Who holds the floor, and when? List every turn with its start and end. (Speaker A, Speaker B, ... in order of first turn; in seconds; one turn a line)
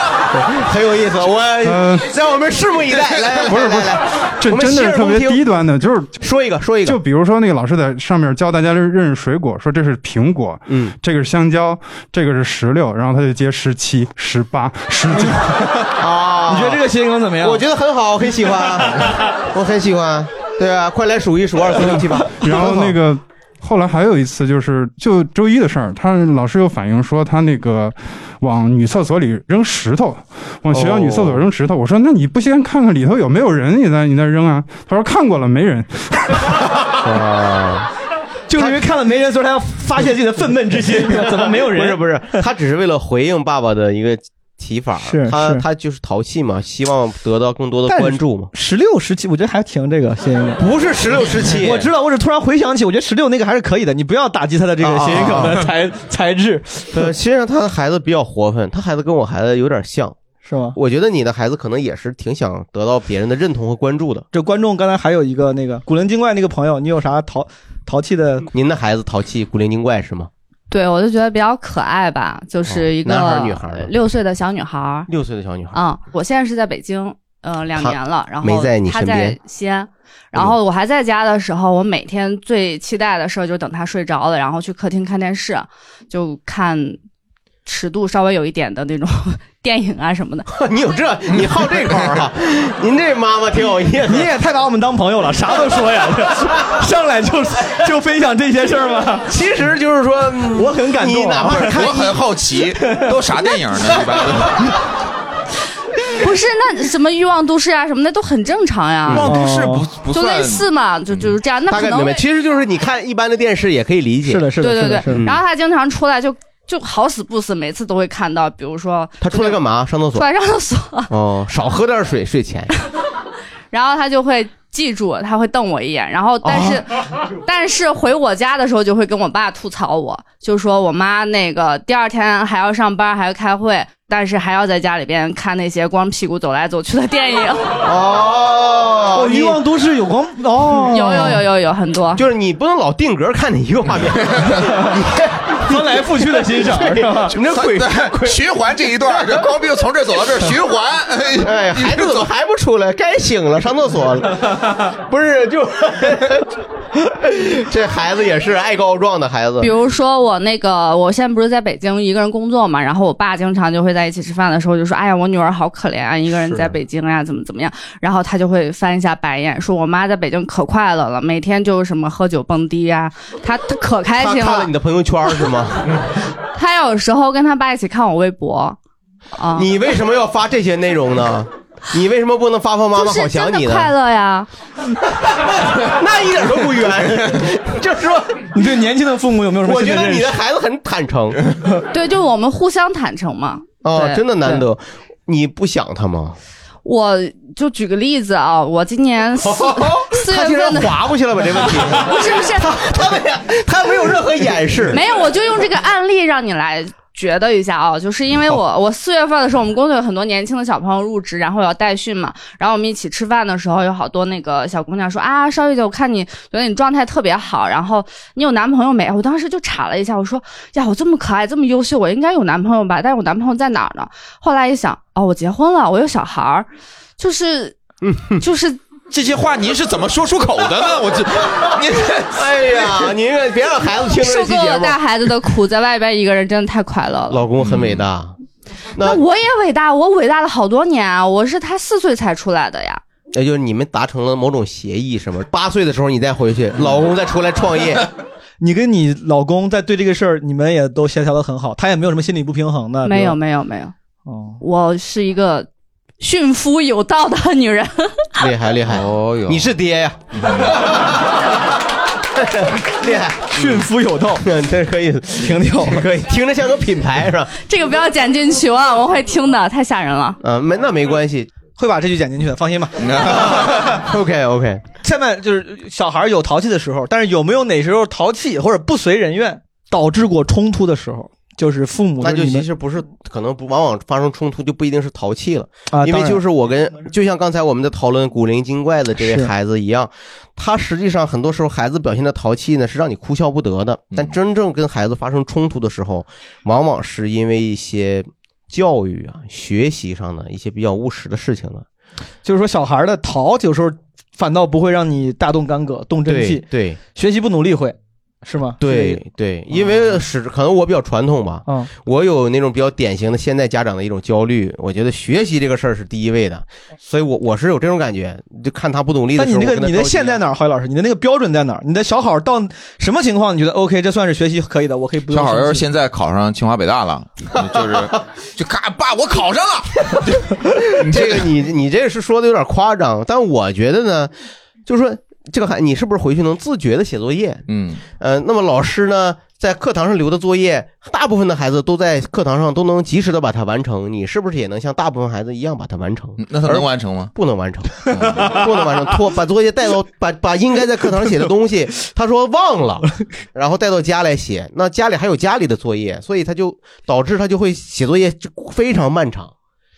Speaker A: 0.3-5.4
Speaker B: 1.6-2.1
Speaker B: 3.5-6.1
Speaker A: 6.2-7.0
Speaker B: 6.8-15.7
Speaker A: 10.7-10.9
Speaker A: 15.9-16.8
Speaker C: 16.5-17.6
Speaker A: 17.4-23.0
Speaker B: 22.4-36.4
Speaker A: 30.7-31.4
Speaker A: 36.9-37.9
Speaker C: 38.5-42.2
Speaker A: 38.6-38.8
Speaker A: 41.0-48.5
Speaker C: 45.0-45.6
Speaker C: 47.9-50.6
Speaker A: 50.6-51.9
Speaker C: 51.5-57.0
Speaker A: 54.8-55.6
Speaker A: 56.9-60.2
Speaker C: 60.4-60.8
Speaker A: 60.7-64.2
Speaker C: 64.3-68.5
Speaker A: 68.5-70.3
Speaker D: 70.7-75.1
Speaker A: 72.7-73.9
Speaker A: 75.1-75.8
Speaker D: 75.7-87.0
Speaker A: 77.8-79.4
Speaker D: 87.7-90.5
Speaker A: 90.5-94.3
Speaker E: 91.3-92.1
Speaker C: 94.0-99.3
Speaker A: 99.3-102.4
Speaker C: 100.5-102.0
Speaker E: 101.5-104.8
Speaker C: 102.8-103.2
Speaker A: 104.1-104.5
Speaker D: 106.2-109.3
Speaker E: 109.1-111.3
Speaker C: 109.2-110.0
Speaker D: 110.1-112.2
Speaker A: 111.7-114.5
Speaker C: 114.2-115.3
Speaker D: 114.6-119.6
Speaker A: 115.1-115.4
Speaker A: 119.2-120.3
Speaker D: 120.1-121.1
Speaker A: 121.1-122.7
Speaker D: 123.7-137.8
Speaker A: 126.4-126.8
Speaker A: 137.8-139.6
Speaker C: 139.1-141.4
Speaker D: 140.9-142.2
Speaker A: 142.1-145.9
Speaker E: 144.3-144.6
Speaker C: 145.6-147.3
Speaker A: 146.5-148.4
Speaker E: 147.4-152.2
Speaker A: 149.1-149.4
Speaker A: 151.4-156.5
Speaker A: 157.1-159.7
Speaker D: 159.6-174.7
Speaker A: 174.2-175.9
Speaker D: 176.5-178.8
Speaker D: 179.4-179.7
Speaker A: 179.5-183.9
Speaker D: 182.9-184.5
Speaker A: 185.3-188.5
Speaker C: 188.5-190.4
Speaker A: 189.6-191.4
Speaker D: 191.9-194.3
Speaker A: 193.8-196.4
Speaker D: 196.8-201.1
Speaker A: 199.4-205.0
Speaker D: 202.0-202.8
Speaker D: 204.9-227.8
Speaker A: 228.0-228.4
Speaker D: 228.4-228.8
Speaker E: 229.1-232.4
Speaker A: 232.2-235.0
Speaker D: 234.1-237.4
Speaker A: 237.3-238.3
Speaker E: 237.6-238.0
Speaker A: 238.9-239.2
Speaker D: 239.0-243.0
Speaker A: 243.3-248.1
Speaker C: 248.6-253.4
Speaker D: 253.0-253.9
Speaker C: 254.2-254.6
Speaker D: 254.6-255.7
Speaker D: 256.2-258.3
Speaker A: 258.4-261.1
Speaker E: 258.9-259.7
Speaker A: 262.4-263.7
Speaker C: 263.5-264.4
Speaker A: 264.4-267.5
Speaker C: 265.4-266.0
Speaker D: 267.5-270.4
Speaker A: 270.4-271.5
Speaker C: 271.7-273.9
Speaker E: 273.0-273.4
Speaker A: 273.5-274.9
Speaker C: 275.0-282.7
Speaker A: 282.2-301.9
Speaker C: 285.9-286.4
Speaker C: 289.2-289.5
Speaker C: 302.4-309.2
Speaker A: 306.2-307.0
Speaker A: 308.8-320.4
Speaker C: 319.4-325.9
Speaker E: 325.3-331.5
Speaker A: 327.6-328.1
Speaker A: 331.0-334.3
Speaker A: 334.9-359.5
Speaker E: 337.7-338.0
Speaker E: 346.4-347.3
Speaker E: 348.1-348.6